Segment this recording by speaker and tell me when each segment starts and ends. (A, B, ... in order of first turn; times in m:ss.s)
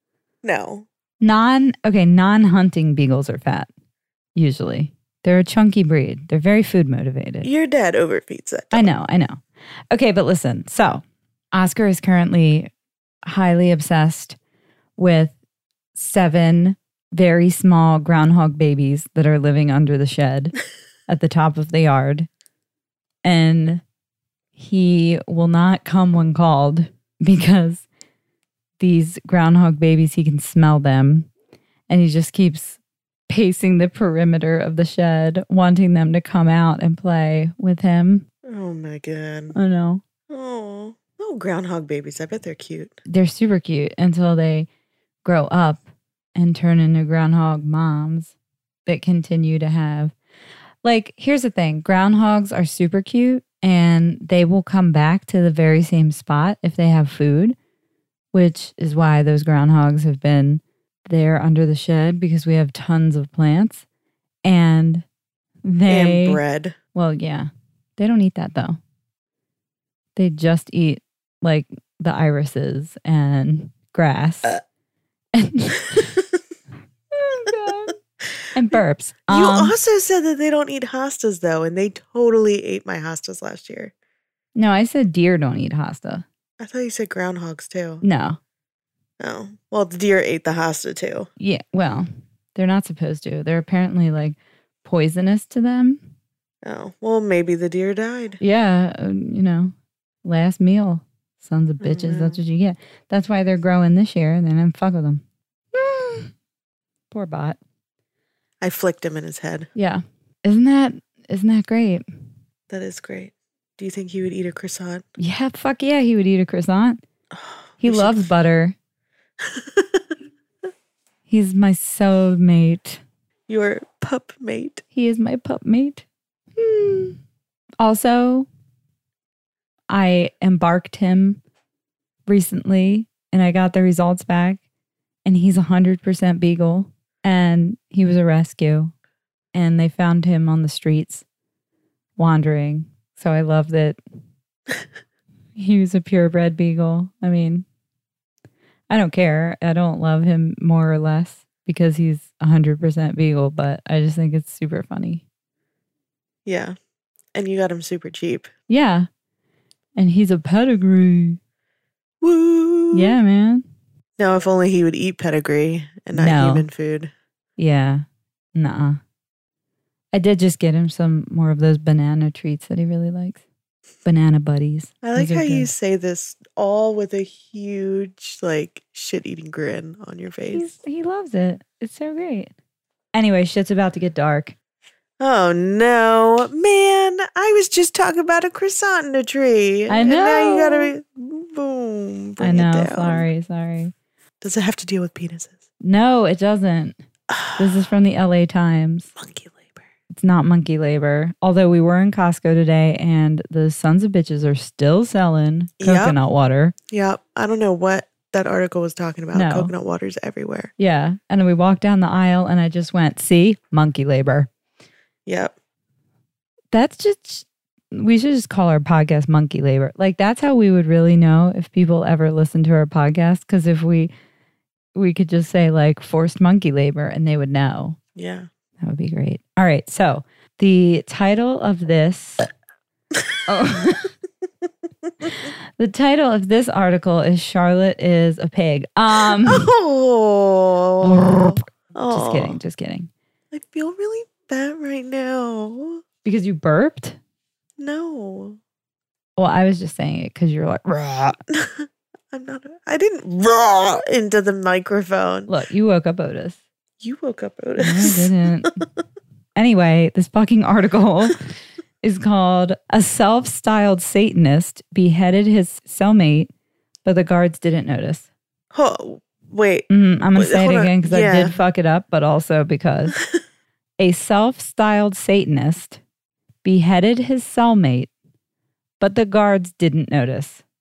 0:00.4-0:00.8 A
0:01.2-0:03.7 B
0:04.3-0:07.5 B
0:07.4-0:08.9 A
0:08.7-0:12.7 B
0:13.2-0:14.4 B
0:15.0-0:15.3 B
0:15.9-0:20.5 B
0:21.1-0:22.3 B
0:23.2-0:23.8 B
0:24.6-0:27.8 B
0:28.8-0:31.3 B
0:31.9-0:38.2 B
0:38.4-0:39.6 A
0:39.5-0:40.0 B
0:40.3-0:43.0 A
0:43.1-0:44.7 B
0:45.2-0:45.8 B
0:46.3-0:48.3 B
0:48.8-0:50.1 B
0:50.8-0:57.6 B
0:58.3-1:03.8 B
1:04.4-1:05.0 B
1:05.6-1:06.4 B
1:05.9-1:06.8 A
1:06.9-1:08.8 B
1:10.2-1:14.6 B
1:15.3-1:16.2 B
1:17.1-1:18.0 B
1:18.5-1:19.8 B
1:19.3-1:23.9 A
1:24.6-1:26.2 B
1:26.6-1:28.0 A
1:28.0-1:28.4 B
1:29.2-1:31.3 A
1:31.4-1:36.0 B
1:36.6-1:38.4 A
1:38.4-1:46.3 B
1:41.8-1:42.4 A
1:47.1-1:47.6 B
1:48.6-1:49.7 A
1:49.7-1:52.0 B
1:52.7-1:55.0 A
1:55.2-1:57.0 B
1:57.3-1:58.3 A
1:57.8-1:58.8 B
1:59.4-2:00.0 A
2:01.3-2:03.0 B
2:03.5-2:04.8 A
2:04.9-2:06.0 B
2:06.6-2:07.2 B
2:07.8-2:08.5 B
2:09.9-2:11.4 B
2:12.3-2:14.6 B
2:15.2-2:18.9 B
2:19.5-2:21.2 B
2:22.2-2:24.0 B
2:25.5-2:27.6 B
2:28.9-2:35.2 B
2:36.4-2:36.7 A
2:37.3-2:38.5 A
2:38.7-2:39.1 B
2:40.0-2:41.4 B
2:42.2-2:43.2 A
2:42.9-2:43.6 B
2:44.2-2:47.1 A
2:46.1-2:46.7 B
2:47.6-2:49.0 B
2:50.1-2:53.4 B
2:54.0-2:55.7 B
2:55.0-3:00.7 A
3:00.5-3:02.5 B
3:03.1-3:04.5 B
3:05.2-3:13.3 A
3:09.9-3:10.9 B
3:12.4-3:13.9 B
3:14.4-3:15.6 A
3:15.8-3:17.0 B
3:17.3-3:17.9 A
3:17.6-3:19.1 B
3:19.2-3:19.8 A
3:20.1-3:26.7 B
3:25.8-3:26.2 A
3:26.9-3:30.7 A
3:29.3-3:29.7 B
3:30.8-3:34.5 B
3:35.2-3:35.5 A
3:36.7-3:44.1 B
3:44.9-3:48.0 B
3:48.2-3:48.5 A
3:48.8-3:52.5 B
3:53.5-3:54.1 B
3:55.8-3:59.7 B
3:59.2-4:02.6 A
4:01.0-4:03.1 B
4:03.5-4:06.0 A
4:06.2-4:07.2 B
4:07.8-4:08.6 A
4:09.4-4:11.4 B
4:11.5-4:15.5 A
4:15.5-4:16.6 B
4:17.0-4:18.8 A
4:17.8-4:18.8 B
4:19.6-4:26.5 B
4:27.0-4:28.3 B
4:28.7-4:31.6 A
4:29.9-4:33.2 B
4:34.0-4:36.0 B
4:36.6-4:38.1 B
4:39.0-4:40.6 B